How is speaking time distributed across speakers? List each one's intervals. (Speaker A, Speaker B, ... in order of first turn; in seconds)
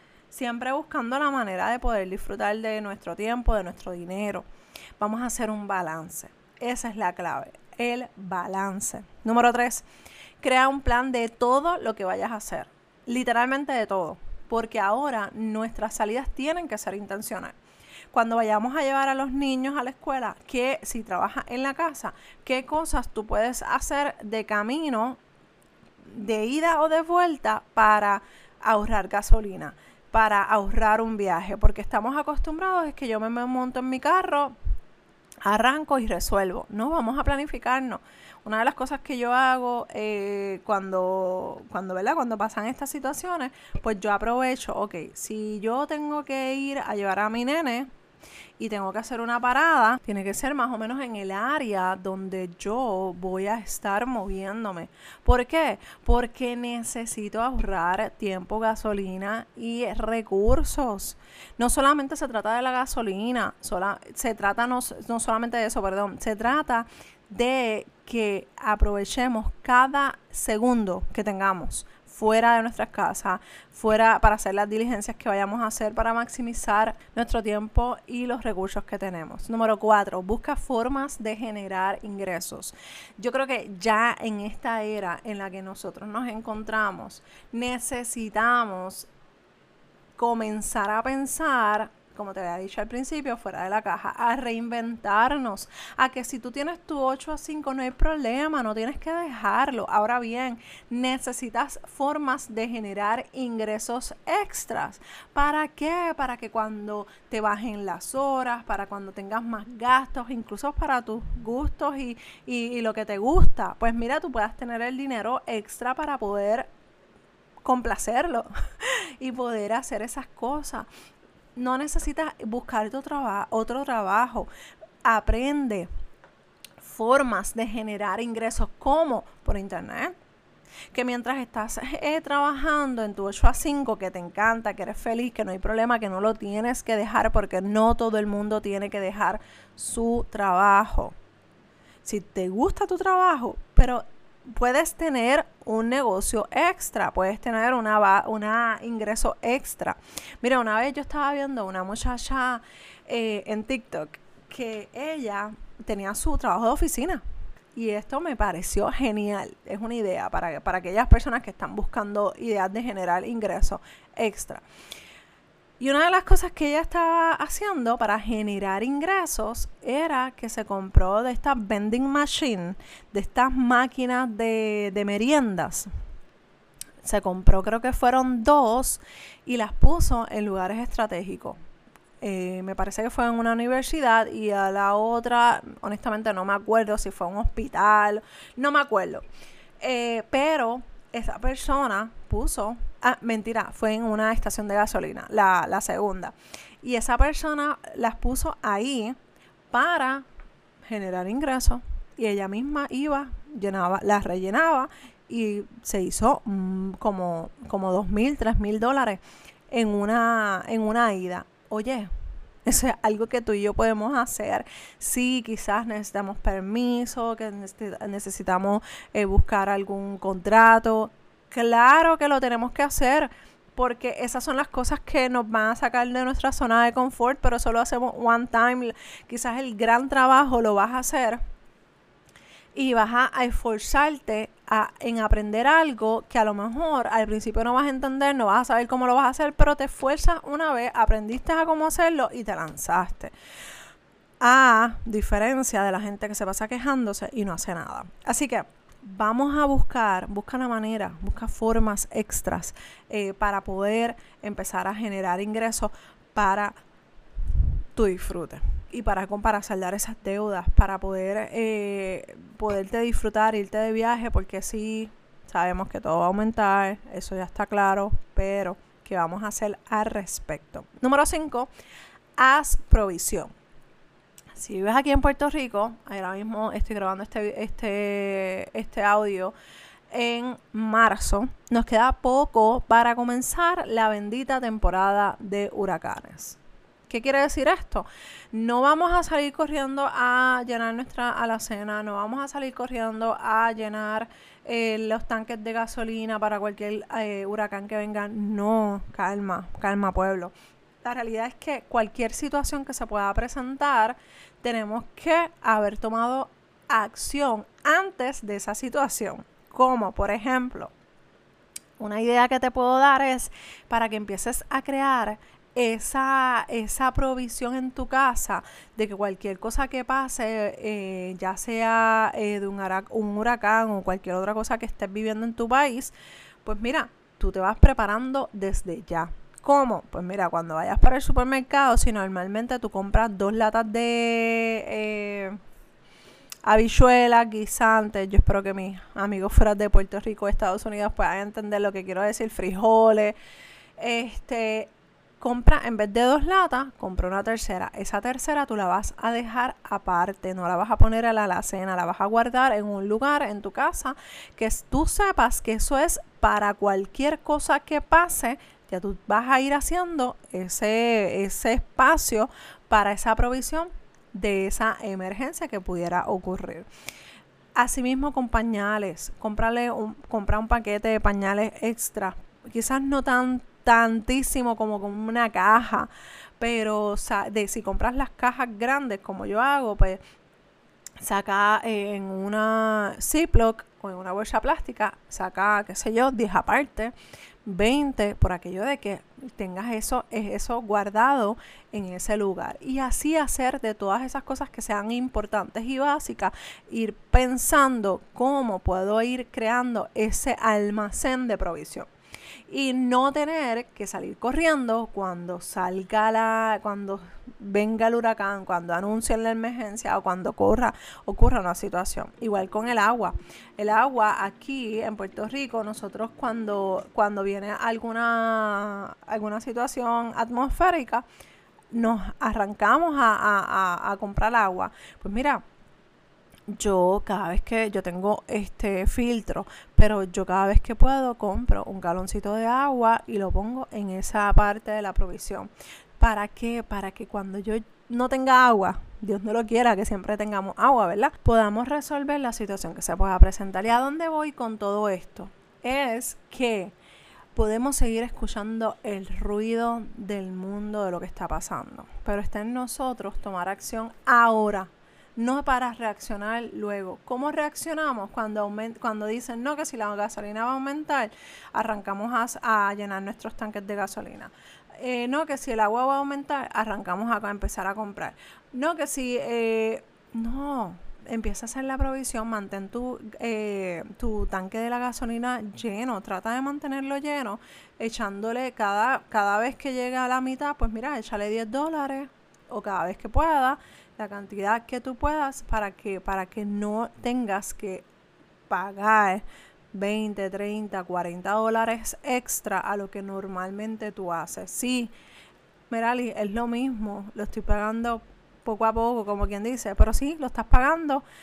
Speaker A: 0.3-4.5, 5.0-9.9, 10.4-17.6, 18.1-25.2, 26.0-34.6, 35.5-47.9, 48.6-89.1, 90.2-116.7, 117.7-120.9, 121.6-124.5, 125.0-125.9, 126.8-130.2, 130.9-141.2, 142.0-157.2, 157.7-164.6, 165.8-175.9, 177.0-181.6, 182.2-189.3, 189.8-199.2, 199.7-200.3, 200.8-212.1, 212.7-231.4, 232.8-243.3, 244.4-256.8, 257.9-271.7, 272.4-273.5, 274.5-279.6, 280.1-310.9, 312.0-335.6, 336.6-343.4, 344.0-366.9, 367.8-380.2, 381.2-387.1, 387.6-402.1, 402.7-421.2, 421.9-425.6, 426.7-446.9, 447.6-488.1, 488.7-495.1, 495.9-501.2